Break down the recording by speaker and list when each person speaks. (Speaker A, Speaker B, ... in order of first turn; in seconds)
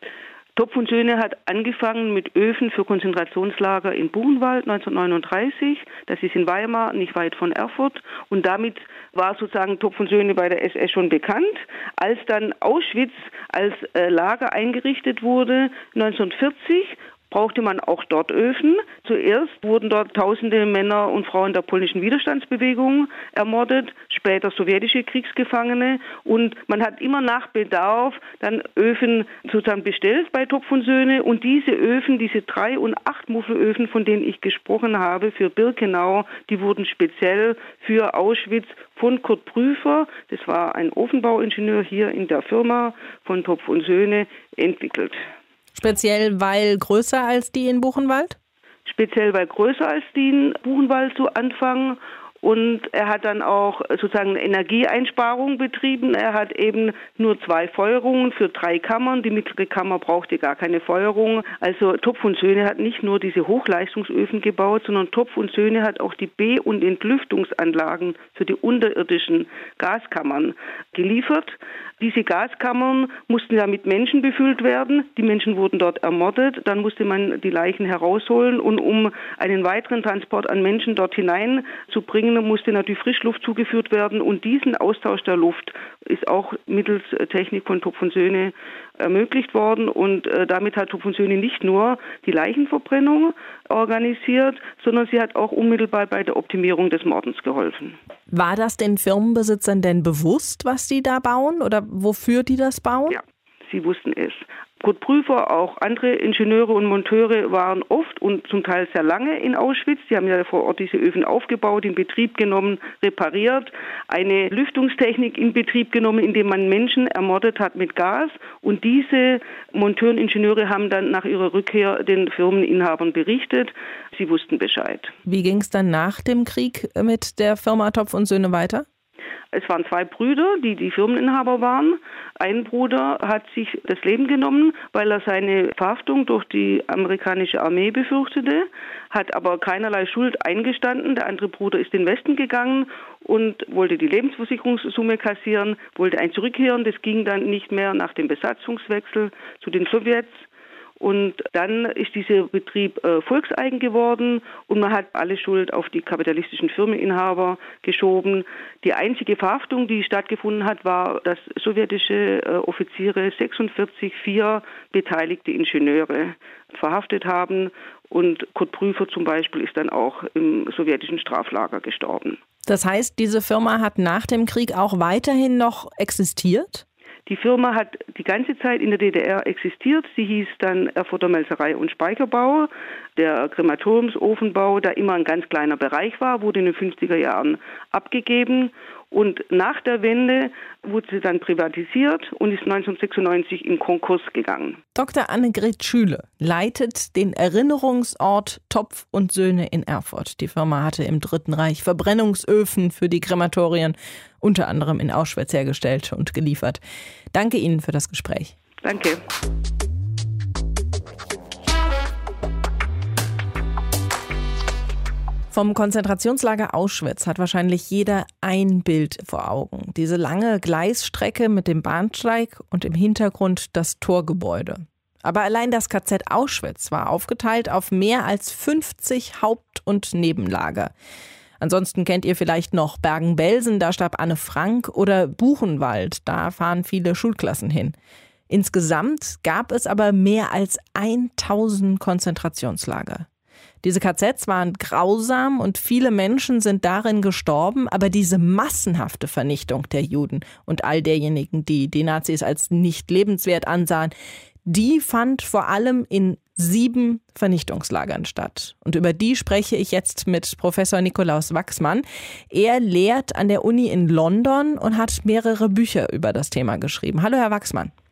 Speaker A: 0.6-45.2, 48.9-98.0, 103.1-125.1, 129.5-150.4, 151.0-172.4, 177.3-194.8, 208.8-209.2
Speaker B: 45.8-48.4, 98.3-103.2, 125.3-128.9, 172.7-176.8, 194.9-206.8, 207.3-208.6, 215.5-230.9, 231.6-237.9, 238.5-243.3, 243.8-254.1, 254.7-267.9